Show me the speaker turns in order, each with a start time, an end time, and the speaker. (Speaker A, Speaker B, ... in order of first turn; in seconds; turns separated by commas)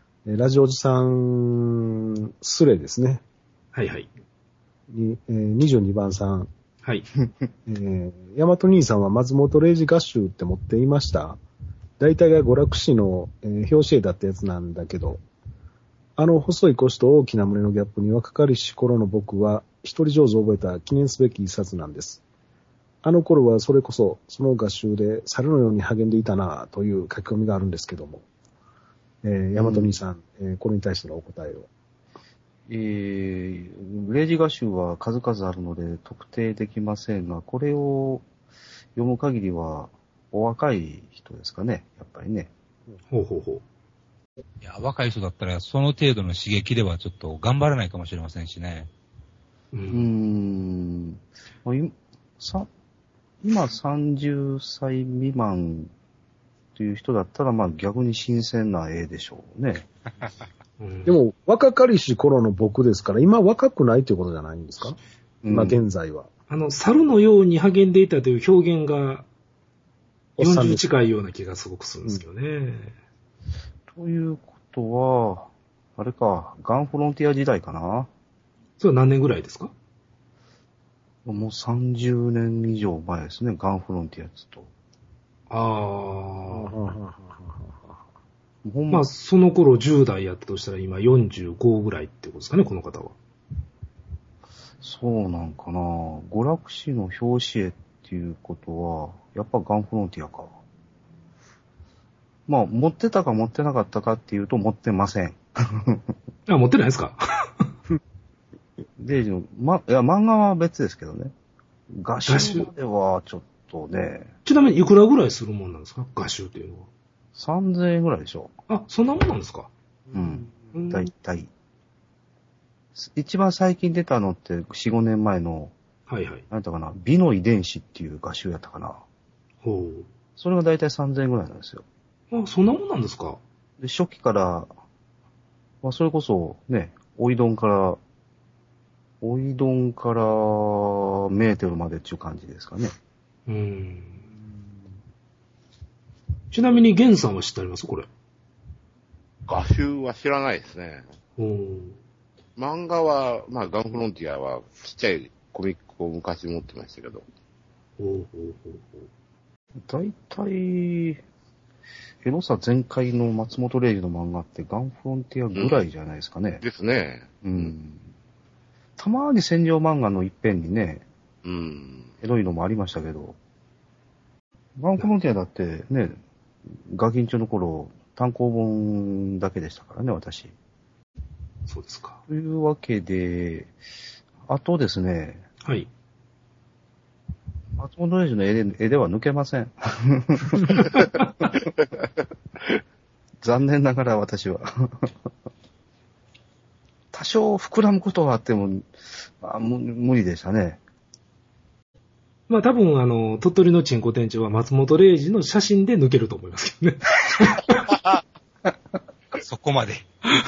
Speaker A: 0.3-3.2, Speaker B: 3.7-4.1, Speaker A: 4.9-6.5, Speaker B: 6.8-7.1, Speaker A: 7.7-11.4, Speaker A: 12.0-15.2, Speaker A: 16.2-22.2, Speaker A: 23.0-28.3, Speaker A: 29.2-31.7, Speaker C: 29.6-29.9, Speaker C: 32.7-38.2, Speaker C: 39.0-42.5, Speaker B: 43.1-43.6, Speaker D: 44.6-48.9, Speaker B: 49.7-50.1, Speaker C: 49.9-52.7, Speaker C: 53.4-55.9, Speaker C: 56.8-59.9, Speaker B: 60.8-61.2, Speaker A: 61.0-65.0, Speaker C: 65.4-65.8, Speaker A: 65.5-66.3, Speaker B: 66.5-69.2, Speaker A: 70.4-70.8, Speaker B: 70.4-72.9, Speaker C: 73.9-78.1, Speaker B: 78.8-79.7, Speaker C: 81.2-84.7, Speaker B: 85.5-86.7, Speaker A: 86.5-88.0, Speaker C: 88.6-89.1, Speaker B: 88.9-93.2, Speaker C: 94.8-100.5, Speaker C: 102.5-106.0, Speaker B: 106.5-107.7, Speaker C: 109.0-111.3, Speaker C: 111.9-114.3, Speaker B: 112.3-112.7, Speaker B: 114.4-116.9, Speaker C: 117.3-118.5, Speaker B: 118.7-119.7, Speaker C: 120.1-121.5, Speaker B: 120.7-121.1, Speaker C: 123.0-125.7, Speaker B: 126.1-126.4, Speaker C: 126.5-129.0, Speaker B: 129.6-130.1, Speaker C: 130.4-131.8, Speaker B: 132.3-133.4, Speaker C: 133.8-134.7, Speaker C: 135.8-138.0, Speaker C: 139.2-142.9, Speaker B: 143.5-144.2, Speaker B: 146.5-148.1, Speaker E: 149.5-151.1, Speaker B: 151.4-152.0, Speaker E: 152.6-157.2, Speaker B: 158.0-159.1, Speaker C: 159.9-161.2, Speaker C: 162.2-166.6, Speaker E: 165.5-165.9, Speaker E: 166.6-167.7, Speaker C: 167.4-168.0, Speaker C: 169.0-171.1, Speaker E: 171.4-172.2, Speaker C: 172.2-173.3, Speaker C: 174.8-176.2, Speaker C: 176.9-180.5, Speaker B: 181.7-182.2, Speaker C: 182.3-183.7, Speaker C: 184.5-185.4, Speaker B: 185.6-185.9, Speaker C: 187.8-190.8, Speaker B: 190.7-191.4, Speaker C: 193.4-195.0, Speaker C: 197.1-198.9, Speaker C: 199.4-200.8, Speaker B: 202.5-207.9, Speaker D: 209.4-210.0